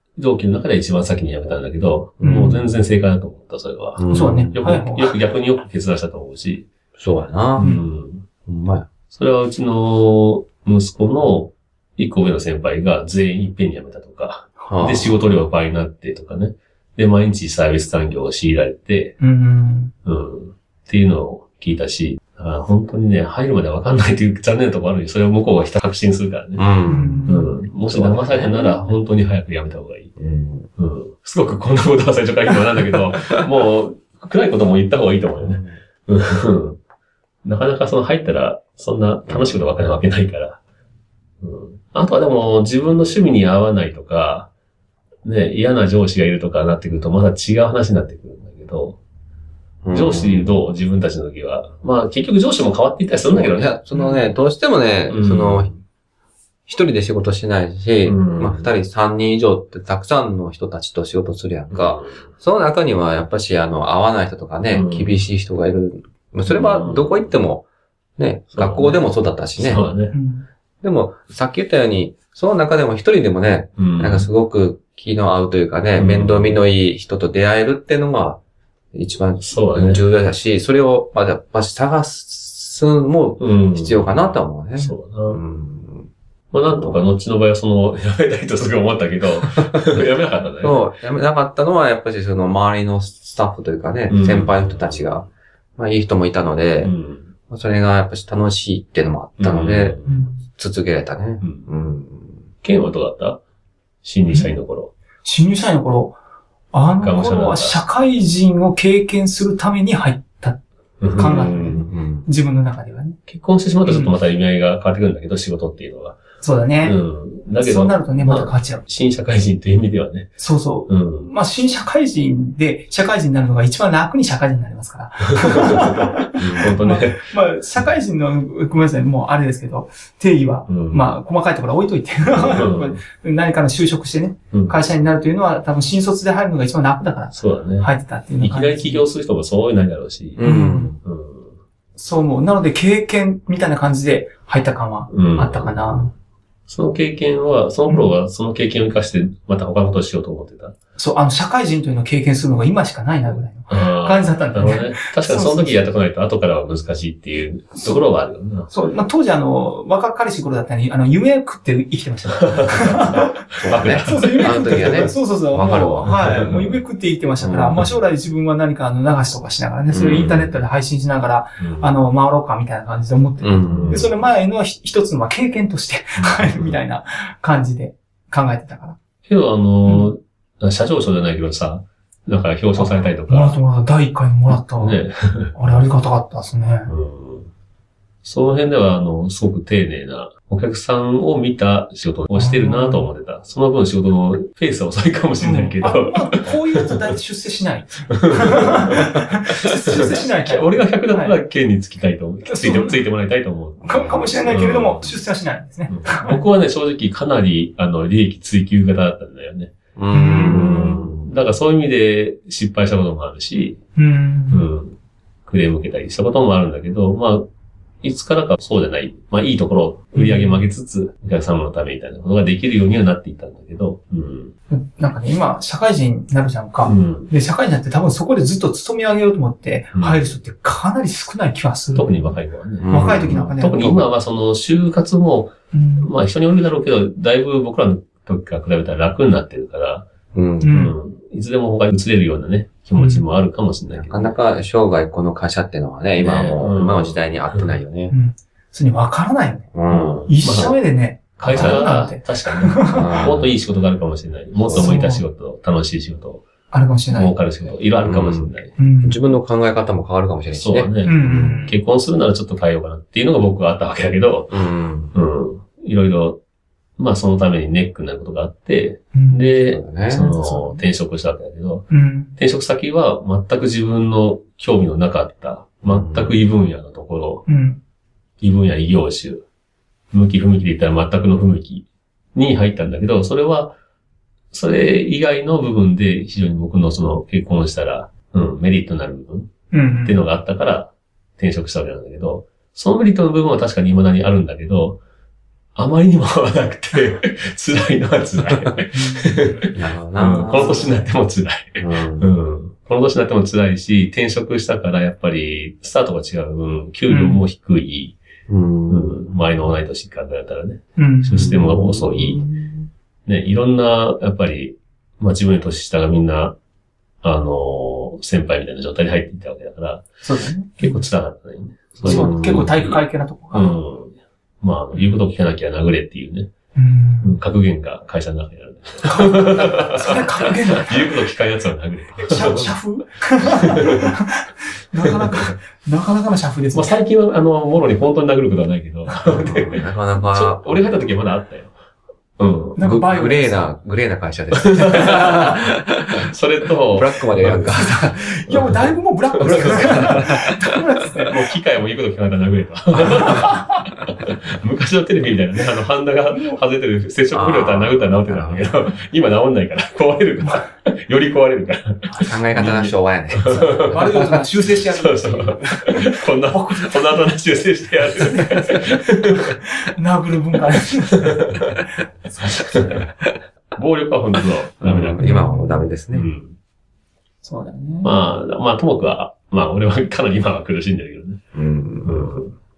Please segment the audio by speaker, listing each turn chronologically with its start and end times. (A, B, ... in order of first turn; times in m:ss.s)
0:00.2-0:06.7 A
0:02.2-0:02.6 B
0:04.0-0:04.6 C
0:04.1-0:05.2 B
0:07.0-0:07.8 C
0:07.6-0:07.8 B
0:07.6-0:08.2 A
0:08.4-0:08.9 C
0:09.1-0:19.2 A
0:14.6-0:15.5 C
0:19.2-0:19.9 B
0:20.0-0:26.6 A
0:26.6-0:27.3 C
0:26.9-0:27.5 B
0:27.3-0:30.1 A
0:27.9-0:29.0 C
0:30.2-0:30.7 C
0:30.8-0:36.8 A
0:35.4-0:35.8 C
0:37.4-0:40.6 A
0:39.3-0:39.6 C
0:41.4-0:44.5 A
0:45.2-0:49.0 A
0:49.8-0:50.5 C
0:49.9-0:53.8 A
0:53.3-0:55.7 C
0:53.9-0:54.2 B
0:55.1-0:55.8 A
0:56.7-1:07.6 C
0:58.0-0:58.7 A
1:01.7-1:02.2 A
1:04.7-1:05.2 A
1:06.4-1:07.3 A
1:08.2-1:09.8 C
1:08.5-1:10.1 A
1:10.1-1:10.4 B
1:10.8-1:18.4 C
1:13.8-1:14.3 A
1:16.0-1:16.6 A
1:18.9-1:26.1 C
1:19.4-1:20.0 A
1:23.4-1:25.4 A
1:26.5-1:30.8 A
1:26.7-1:27.0 C
1:30.6-1:36.9 C
1:34.1-1:35.3 A
1:36.8-1:37.3 A
1:37.5-1:42.4 C
1:39.4-1:40.1 A
1:40.0-1:40.4 B
1:41.4-1:41.7 A
1:42.6-1:43.4 A
1:44.0-1:44.9 A
1:45.2-1:46.2 B
1:46.7-1:50.6 B
1:47.0-1:47.8 A
1:51.0-1:51.8 A
1:51.1-1:53.2 B
1:51.8-1:52.3 C
1:53.3-1:56.2 A
1:53.8-1:54.1 B
1:56.4-1:57.0 B
1:56.8-2:00.3 A
1:57.6-1:58.8 B
2:00.4-2:19.0 B
2:00.9-2:01.3 A
2:05.3-2:07.3 A
2:06.4-2:06.8 C
2:10.7-2:11.0 A
2:12.3-2:13.0 A
2:14.5-2:14.8 A
2:17.3-2:20.5 A
2:20.4-2:21.0 C
2:20.4-2:20.9 B
2:21.0-2:21.5 A
2:22.0-2:26.1 B
2:25.1-2:26.0 A
2:26.7-2:30.7 A
2:27.9-2:28.1 B
2:31.0-2:35.9 B
2:33.7-2:38.7 A
2:38.7-2:59.0 B
2:42.3-2:45.1 A
2:43.5-2:46.6 C
2:46.1-2:46.6 A
2:47.4-2:47.9 C
2:49.9-2:50.5 C
2:51.6-2:51.9 A
2:53.4-2:54.1 C
2:53.7-2:54.1 A
2:56.2-2:56.7 A
2:59.3-3:03.6 A
3:02.8-3:05.0 B
3:04.8-3:05.5 A
3:05.5-3:06.9 B
3:06.9-3:07.5 A
3:08.2-3:17.0 A
3:12.3-3:13.1 B
3:15.4-3:21.4 B
3:18.1-3:25.2 A
3:22.4-3:23.0 B
3:23.8-3:26.4 B
3:25.9-3:29.8 A
3:30.0-3:31.2 C
3:30.1-3:30.8 B
3:30.3-3:33.8 A
3:34.0-3:34.7 B
3:34.5-3:35.0 A
3:35.5-3:37.5 A
3:38.0-3:44.5 A
3:40.1-3:40.6 B
3:44.7-3:52.3 B
3:46.8-3:47.3 A
3:49.9-3:50.2 A
3:51.9-4:00.1 A
3:52.8-3:53.5 C
3:52.9-3:54.1 B
3:55.7-3:56.1 B
4:00.3-4:00.8 C
4:00.6-4:00.9 B
4:00.6-4:04.3 A
4:03.0-4:03.2 B
4:03.9-4:08.1 C
4:06.2-4:07.7 A
4:08.1-4:09.7 B
4:09.7-4:10.3 C
4:09.9-4:10.8 A
4:10.3-4:13.2 B
4:11.4-4:16.4 A
4:11.5-4:11.8 C
4:12.9-4:13.5 C
4:14.6-4:14.9 C
4:14.7-4:15.2 B
4:16.7-4:17.3 B
4:17.1-4:18.7 A
4:18.0-4:21.7 C
4:18.8-4:19.2 B
4:20.5-4:24.6 A
4:21.0-4:21.8 B
4:24.5-4:25.1 C
4:25.1-4:26.4 A
4:27.0-4:37.4 A
4:29.1-4:29.5 B
4:29.6-4:30.3 C
4:30.3-4:30.8 B
4:31.9-4:32.3 B
4:35.8-4:36.4 C
4:37.5-4:37.8 B
4:38.4-4:39.4 A
4:40.1-4:43.8 A
4:44.5-4:49.5 A
4:49.7-4:50.2 B
4:50.0-4:55.0 A
4:55.8-5:08.2 A
4:58.9-4:59.6 B
4:59.7-5:01.0 C
5:01.8-5:02.3 C
5:07.1-5:07.4 B
5:08.5-5:09.2 C
5:08.9-5:12.4 A
5:11.0-5:11.6 B
5:11.3-5:12.9 C
5:13.2-5:16.6 A
5:17.2-5:20.0 A
5:20.2-5:21.0 B
5:20.8-5:23.0 A
5:22.0-5:22.4 C
5:22.0-5:23.7 B
5:23.5-5:26.5 A
5:26.8-5:27.4 B
5:27.2-5:32.7 A
5:29.0-5:31.2 B
5:32.2-5:36.9 B
5:33.5-5:34.1 A
5:35.0-5:35.5 A
5:36.7-5:41.7 A
5:39.2-5:40.8 C
5:42.4-5:42.8 A
5:42.8-5:43.7 B
5:42.8-5:46.3 C
5:44.5-5:45.6 A
5:46.2-5:47.8 A
5:46.9-5:48.8 C
5:47.8-5:51.4 B
5:49.4-5:50.3 A
5:49.4-5:50.5 C
5:51.3-6:09.6 A
5:53.2-5:53.8 B
5:56.3-5:56.6 B
5:57.3-5:58.7 C
6:02.2-6:04.3 C
6:03.8-6:07.2 B
6:08.2-6:11.6 B
6:11.2-6:11.6 A
6:12.3-6:12.8 B
6:12.7-6:13.0 A
6:13.7-6:15.3 A
6:14.8-6:16.3 C
6:15.2-6:15.9 B
6:16.1-6:16.5 A
6:17.4-6:18.1 B
6:18.0-6:21.4 A
6:21.5-6:22.4 C
6:22.0-6:22.5 A